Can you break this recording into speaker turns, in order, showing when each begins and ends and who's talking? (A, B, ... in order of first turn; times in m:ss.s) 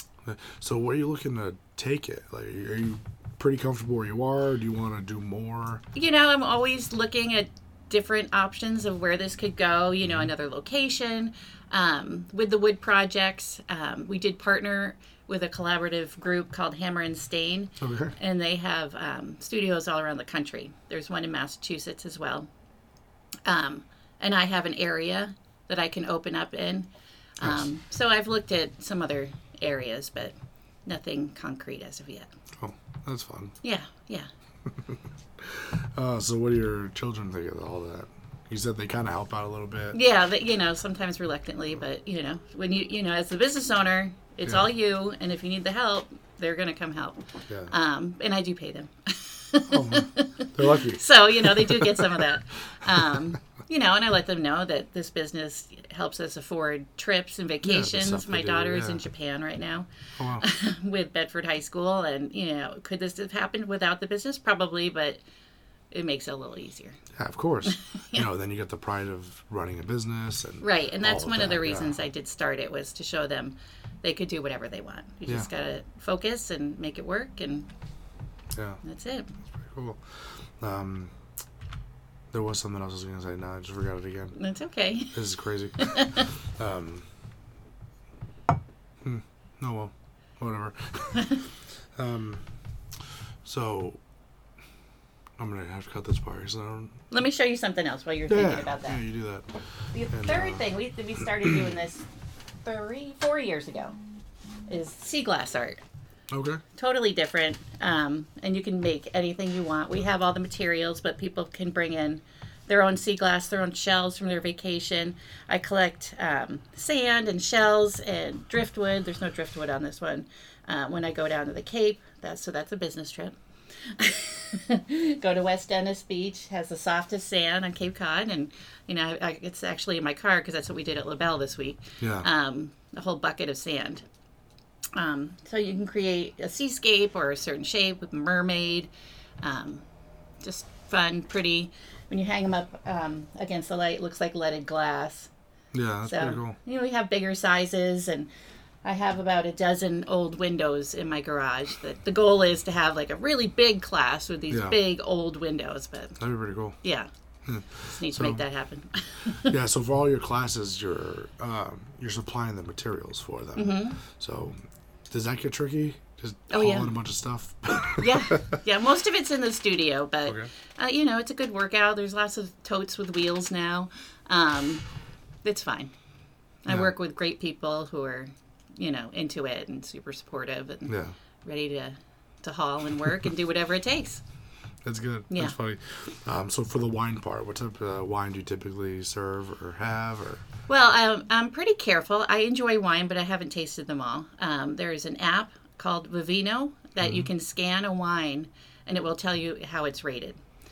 0:00.2-0:05.8 A
0:05.9-0:22.5 B
0:10.0-0:10.3 A
0:17.8-0:18.1 A
0:23.4-0:30.3 B
0:30.8-0:32.3 B
0:32.6-0:33.5 A
0:33.6-0:34.3 B
0:34.7-0:40.0 A
0:39.9-1:05.2 B
0:49.7-0:52.3 A
0:57.6-0:59.0 A
1:00.2-1:00.4 A
1:05.9-1:07.0 B
1:07.2-1:12.0 A
1:07.7-1:08.3 B
1:10.6-1:17.7 B
1:18.5-1:18.8 A
1:18.8-1:19.3 B
1:19.5-1:21.1 A
1:22.3-1:24.4 A
1:24.4-1:26.3 B
1:25.1-1:27.0 A
1:29.0-1:31.3 A
1:32.0-1:32.4 A
1:33.4-1:34.0 A
1:35.4-1:37.0 A
1:37.1-1:39.0 B
1:38.3-1:39.5 A
1:39.9-1:42.0 B
1:40.1-1:40.6 A
1:42.6-1:44.0 B
1:44.7-1:45.8 B
1:46.3-1:46.6 A
1:46.8-2:14.0 B
2:12.0-2:12.3 A
2:14.9-2:18.9 B
2:19.4-2:19.8 B
2:20.4-2:25.3 B
2:25.7-2:26.6 A
2:26.0-2:28.3 B
2:28.8-2:36.2 B
2:34.5-2:34.8 A
2:36.2-2:36.8 A
2:36.8-2:37.1 B
2:37.4-2:38.4 A
2:37.8-2:39.6 B
2:39.5-2:44.6 A
2:43.5-2:44.0 B
2:45.1-2:48.4 A
2:46.5-2:46.9 B
2:48.0-2:54.8 B
2:55.4-2:55.9 B
2:56.6-3:04.2 B
2:56.7-2:56.9 A
3:00.9-3:01.1 A
3:04.8-3:10.4 A
3:05.3-3:05.5 B
3:10.7-3:20.4 B
3:17.0-3:17.3 A